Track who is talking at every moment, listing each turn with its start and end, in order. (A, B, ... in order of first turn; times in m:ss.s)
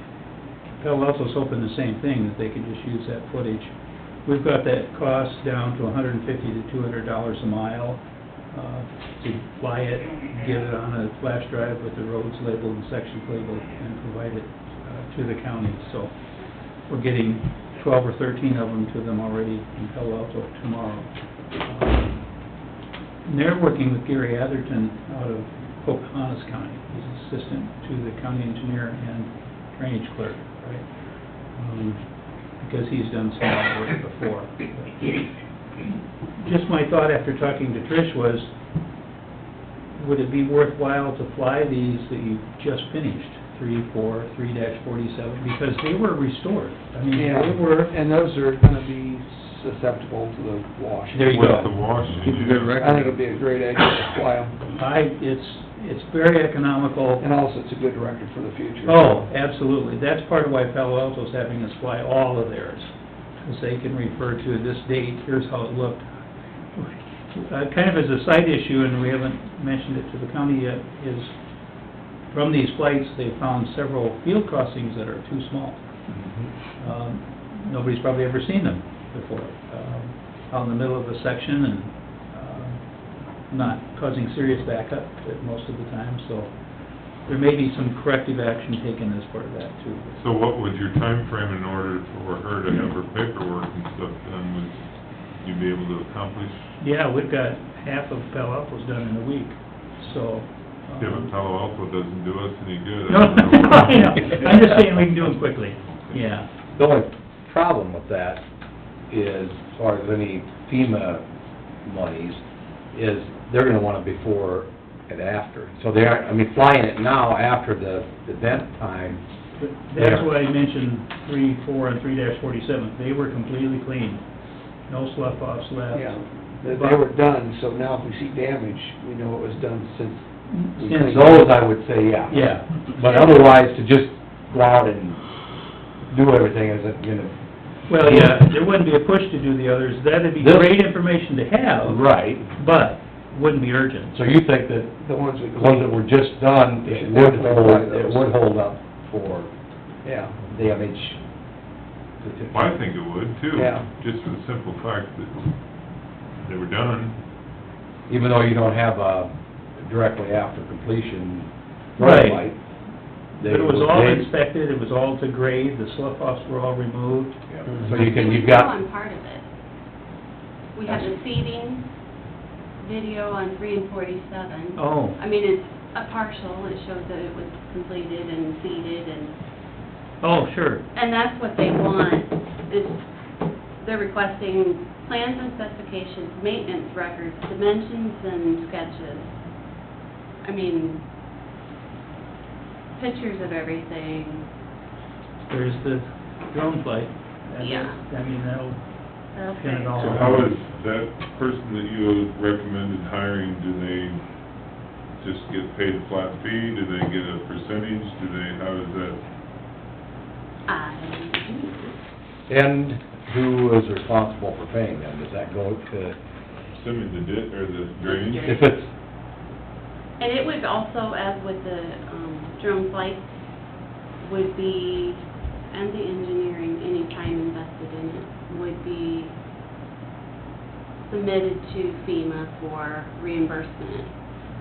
0:00.8-0:16.1 A
0:16.8-0:22.3 A
0:23.2-0:30.9 A
0:31.5-0:32.0 A
0:32.6-0:35.2 A
0:36.4-0:38.5 A
0:40.0-0:47.6 A
0:47.1-0:51.5 B
0:51.1-0:51.8 A
0:51.3-0:52.9 C
0:52.2-0:52.9 D
0:52.7-0:54.6 B
0:54.6-0:57.2 A
0:57.2-0:59.3 B
0:58.8-1:06.1 A
1:06.7-1:11.3 A
1:12.3-1:15.8 A
1:16.1-1:16.5 D
1:16.8-1:22.8 A
1:23.4-1:26.5 A
1:27.2-1:30.2 A
1:30.2-1:34.8 C
1:35.4-1:36.7 C
1:36.8-1:41.3 A
1:41.0-1:45.0 C
1:43.1-1:46.5 A
1:46.8-1:48.4 D
1:49.1-1:51.2 D
1:51.8-1:52.4 D
1:52.9-1:59.2 D
1:59.6-2:04.2 A
2:00.0-2:00.3 D
2:04.9-2:07.0 A
2:05.9-2:11.4 B
2:10.5-2:11.6 A
2:11.0-2:15.2 D
2:12.3-2:13.5 A
2:16.1-2:17.3 D
2:17.9-2:24.2 A
2:18.0-2:18.4 D
2:20.4-2:20.8 D
2:21.8-2:22.5 D
2:24.1-2:29.5 D
2:25.0-2:26.0 B
2:26.8-2:28.3 B
2:30.0-2:30.4 B
2:30.5-2:31.2 D
2:32.2-2:32.7 D
2:32.5-2:35.5 C
2:33.5-2:33.9 B
2:36.4-2:37.2 C
2:38.1-2:42.6 D
2:42.0-2:42.5 A
2:43.4-2:44.3 D
2:43.4-2:47.4 A
2:47.5-2:48.7 D
2:47.8-2:49.5 E
2:50.7-2:51.9 E
2:52.8-2:59.4 E
2:54.8-2:55.2 A
3:00.2-3:00.8 A
3:00.9-3:03.0 E
3:03.8-3:09.5 E
3:10.4-3:11.0 E
3:13.0-3:14.5 E
3:15.5-3:20.5 A
3:17.6-3:18.0 E
3:19.3-3:20.3 E
3:20.0-3:24.2 C
3:25.2-3:29.2 C
3:30.7-3:31.9 E
3:32.5-3:36.2 D
3:36.7-3:38.5 C
3:38.0-3:38.8 E
3:38.4-3:38.9 D
3:40.2-3:43.3 E
3:44.2-3:49.3 E
3:51.0-3:54.2 E